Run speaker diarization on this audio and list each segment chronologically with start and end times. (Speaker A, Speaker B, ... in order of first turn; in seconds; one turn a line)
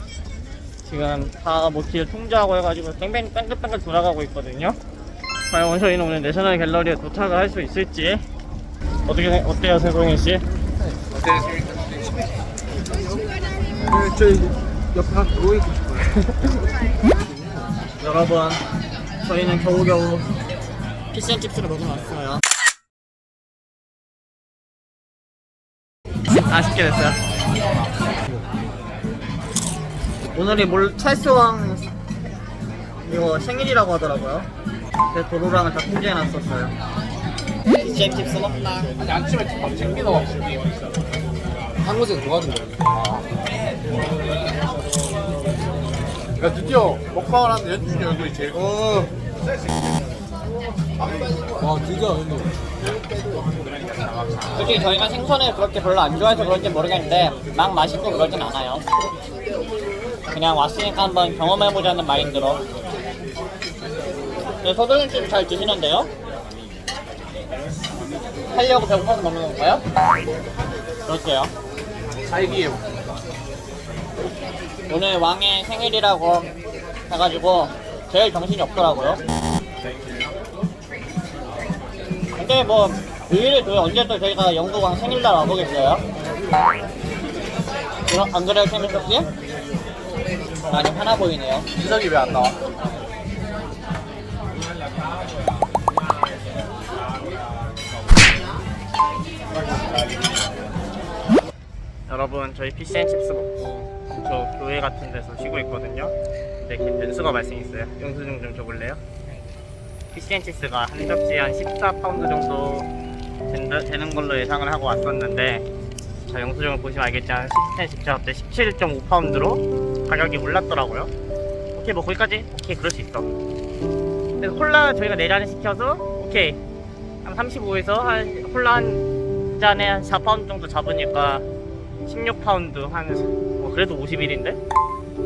Speaker A: 0.8-4.8
Speaker A: 5.5-8.2
Speaker A: 9.1-10.4
Speaker B: 11.1-12.4
Speaker C: 12.8-13.2
Speaker C: 13.8-16.2
Speaker C: 17.0-17.8
Speaker A: 18.0-18.6
Speaker A: 19.2-20.3
Speaker A: 21.1-22.4
Speaker A: 26.3-27.2
Speaker A: 30.4-31.9
Speaker A: 33.0-34.5
Speaker A: 35.1-36.8
Speaker A: 37.8-38.9
Speaker B: 39.0-40.4
Speaker C: 41.8-43.0
Speaker B: 42.9-43.3
Speaker B: 46.4-49.0
Speaker C: 48.5-49.1
Speaker C: 51.6-52.6
Speaker B: 54.2-54.5
Speaker A: 54.5-58.8
Speaker A: 60.3-62.6
Speaker A: 64.6-66.1
Speaker A: 68.5-69.8
Speaker A: 71.1-71.5
Speaker B: 72.3-72.8
Speaker A: 74.9-76.5
Speaker A: 77.1-79.2
Speaker B: 79.8-80.5
Speaker A: 82.4-86.0
Speaker A: 88.1-89.3
Speaker A: 90.7-91.7
Speaker B: 91.7-92.6
Speaker A: 102.1-109.0
Speaker A: 110.1-112.9
Speaker A: 113.5-115.7
Speaker A: 116.3-121.1
Speaker A: 121.7-123.3
Speaker A: 124.4-126.6
Speaker A: 127.2-129.1
Speaker A: 129.6-131.4
Speaker A: 132.1-134.6